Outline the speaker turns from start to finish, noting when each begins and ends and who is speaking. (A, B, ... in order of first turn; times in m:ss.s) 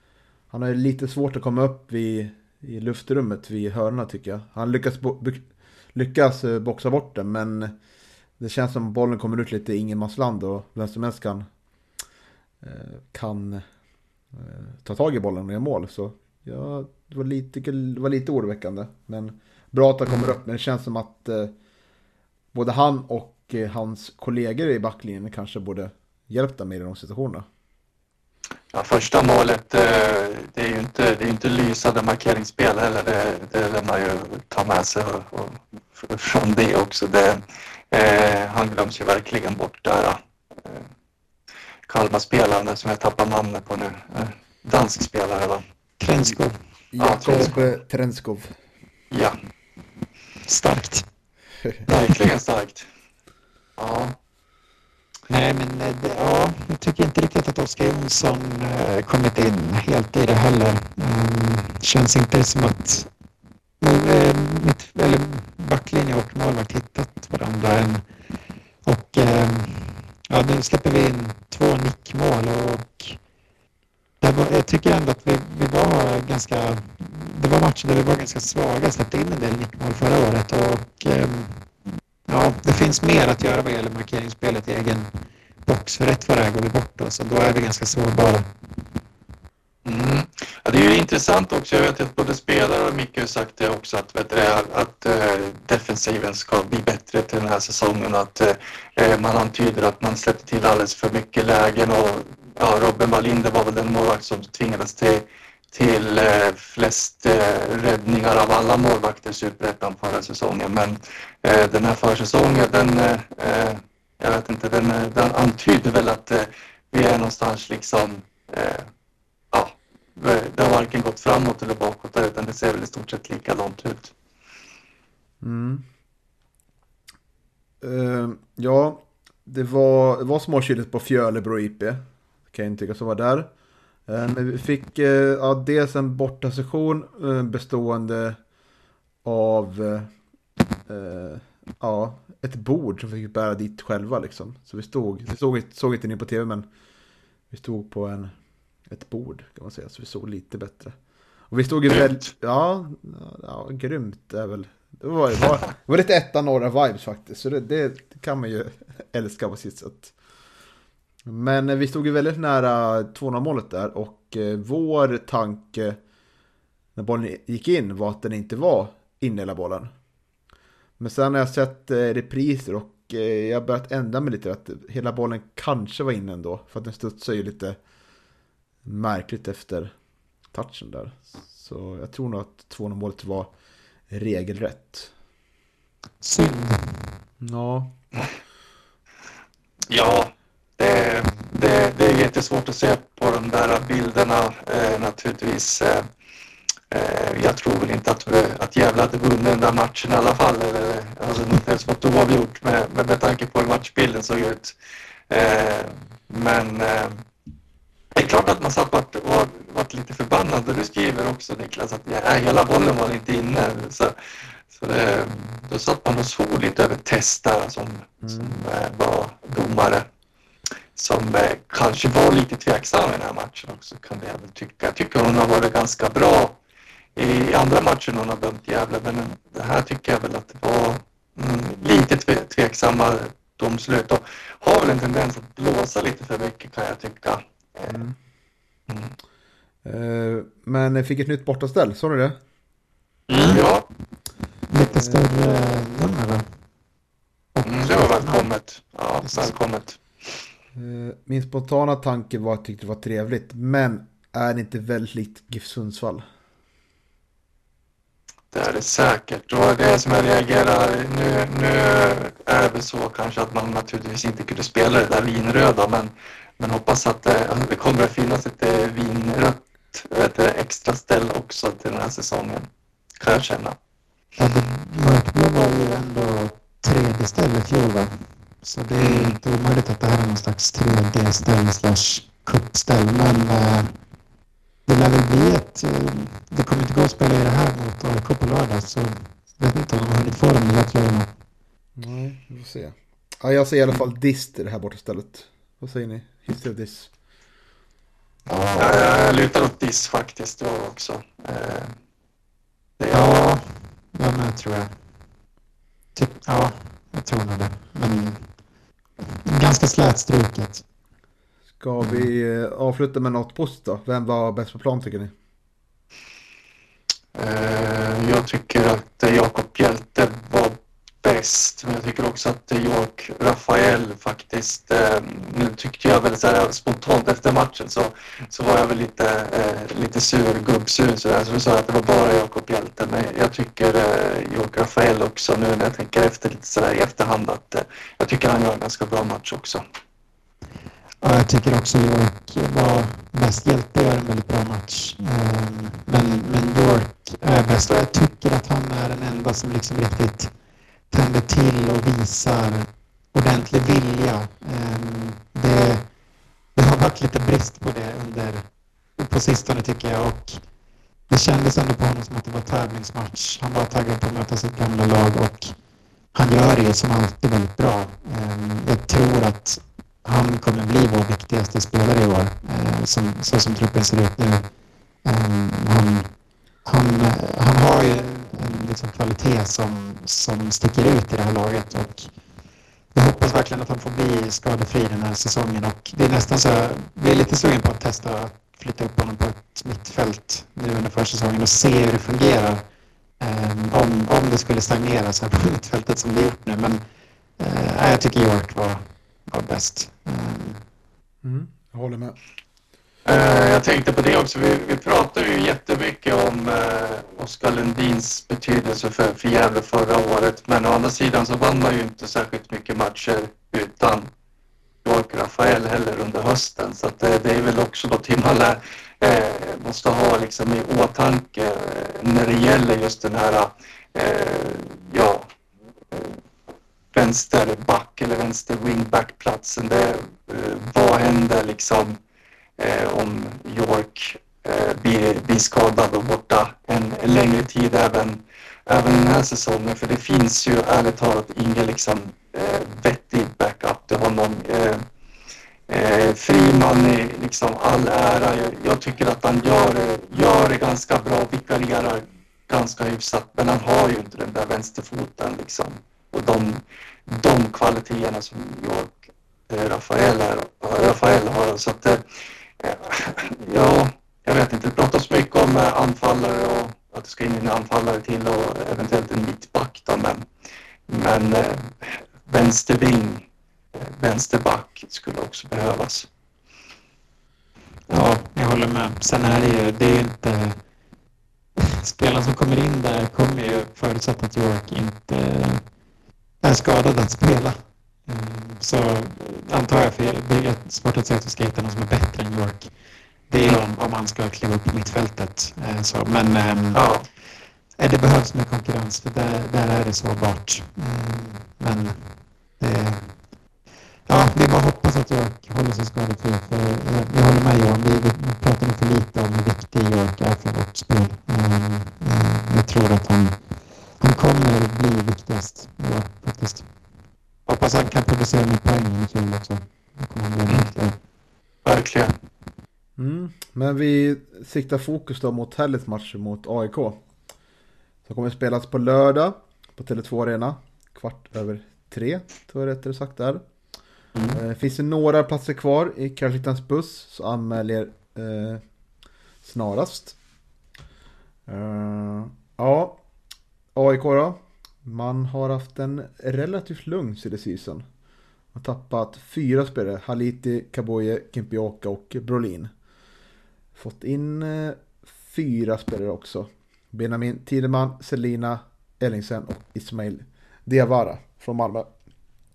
0:00.5-0:07.8 A
0:08.4-0:11.5 A
0:12.6-0:13.6 A
0:14.3-0:21.5 A
0:22.5-0:27.5 A
0:28.7-0:40.9 B
0:41.9-0:45.6 B
0:46.0-0:46.6 C
0:46.9-0:48.6 A
0:47.0-0:47.5 B
0:49.1-0:49.4 B
0:50.5-0:51.0 C
0:51.9-0:52.9 B
0:53.8-0:54.2 B
0:55.3-1:03.1 C
1:03.8-1:08.0 C
1:08.8-1:13.2 C
1:14.2-1:21.7 C
1:22.3-1:25.1 C
1:25.6-1:28.5 C
1:29.8-1:58.9 B
1:59.5-2:04.1 B
2:05.4-2:05.8 A
2:07.8-2:13.5 A
2:14.1-2:18.4 A
2:19.2-2:20.1 A
2:20.9-2:26.7 A
2:27.5-2:28.4 A
2:28.9-2:31.0 A
2:31.5-2:40.1 A
2:41.2-2:46.0 A
2:46.9-2:49.9 A
2:51.0-2:57.8 A
2:58.8-2:59.9 A
3:00.5-3:03.5 A
3:04.1-3:05.1 A
3:06.2-3:07.1 C
3:07.4-3:08.0 A
3:09.9-3:16.1 B
3:16.9-3:24.7 B
3:25.3-3:27.2 B
3:28.1-3:34.2 B
3:34.7-3:40.1 B
3:38.2-3:38.5 A
3:41.0-3:46.6 B
3:47.2-3:58.0 B
3:57.9-3:58.2 A
3:58.9-3:59.1 B
3:59.8-4:02.4 A
4:03.3-4:03.6 C
4:03.4-4:03.8 B
4:04.7-4:06.4 C
4:04.9-4:05.2 A
4:07.5-4:08.5 C
4:07.6-4:10.3 B
4:09.2-4:09.6 C
4:10.7-4:16.2 A
4:18.5-4:32.7 B
4:33.2-4:33.8 B
4:34.4-4:43.9 C
4:39.0-4:39.4 B
4:44.9-4:51.3 C
4:52.0-4:57.1 A
4:58.5-4:59.0 C
4:58.8-5:02.0 B
5:03.0-5:03.2 B
5:03.1-5:04.9 C
5:06.1-5:08.5 C
5:09.4-5:10.8 C
5:11.8-5:15.3 A
5:17.3-5:39.8 B
5:41.2-5:50.5 C
5:51.1-5:56.0 C
5:56.8-5:58.6 C
5:59.2-6:00.6 C
6:01.3-6:05.7 C
6:06.3-6:14.6 C
6:15.2-6:16.3 C
6:16.8-6:22.3 C
6:23.1-6:32.8 C
6:33.4-6:37.0 C
6:37.6-6:40.8 C
6:41.4-6:42.4 A
6:43.2-6:54.3 B
6:55.0-7:05.5 B
7:06.1-7:06.4 B
7:07.1-7:12.2 B
7:12.8-7:25.0 B
7:25.9-7:42.2 B
7:42.8-7:50.5 B
7:51.1-7:56.3 B
7:58.1-8:00.8 C
8:01.8-8:05.8 C
8:06.6-8:12.9 C
8:13.5-8:17.0 C
8:16.9-8:17.2 B
8:18.0-8:23.3 C
8:24.3-8:33.6 C
8:34.2-8:36.8 C
8:37.7-8:41.1 C
8:41.8-8:42.3 B
8:43.2-8:47.2 A
8:48.2-8:53.6 A
8:54.5-8:58.8 A
8:59.6-9:00.4 A
9:01.7-9:03.2 A
9:03.9-9:08.0 A
9:08.7-9:12.9 A
9:13.9-9:22.1 A